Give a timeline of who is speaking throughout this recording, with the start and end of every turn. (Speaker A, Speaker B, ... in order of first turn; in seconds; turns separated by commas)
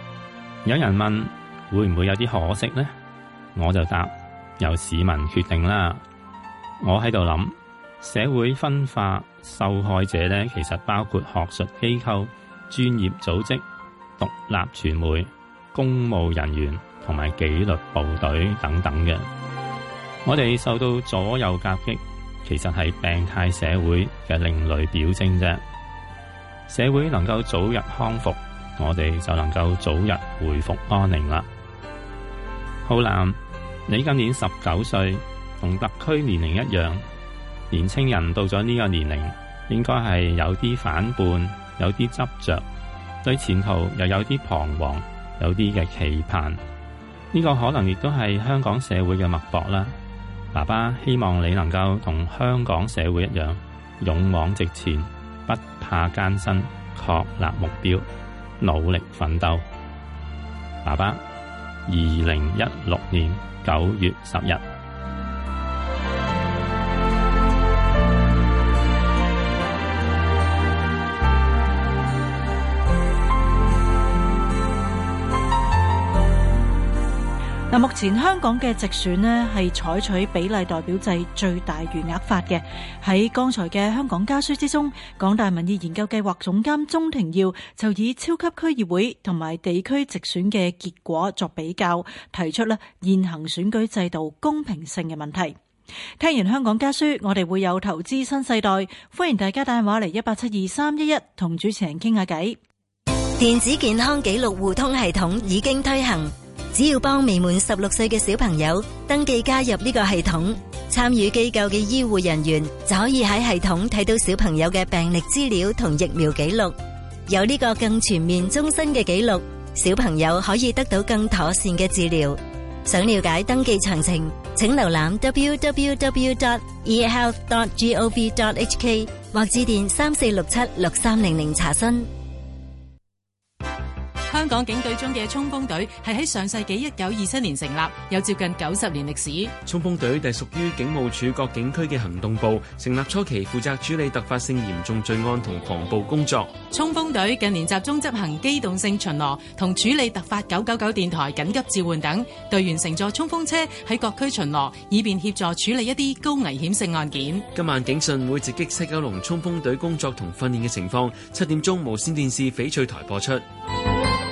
Speaker A: 0.6-2.9, Speaker A: 3.5-6.0, Speaker A: 6.8-13.6, Speaker A: 14.2-19.3, Speaker A: 20.2-25.6, Speaker A: 26.7-31.5, Speaker A: 32.9-37.0, Speaker A: 37.7-42.6, Speaker A: 43.2-46.6, Speaker A: 47.3-49.9, Speaker A: 50.5-58.0, Speaker A: 58.6-59.6, Speaker A: 60.8-61.2, Speaker A: 61.9-64.6, Speaker B: 77.7-95.6, Speaker B: 96.2-102.6, Speaker C: 103.4-116.8, Speaker C: 117.3-132.1, Speaker D: 134.3-139.5, Speaker E: 139.6-146.5, Speaker D: 146.7-157.4, Speaker E: 157.5-163.4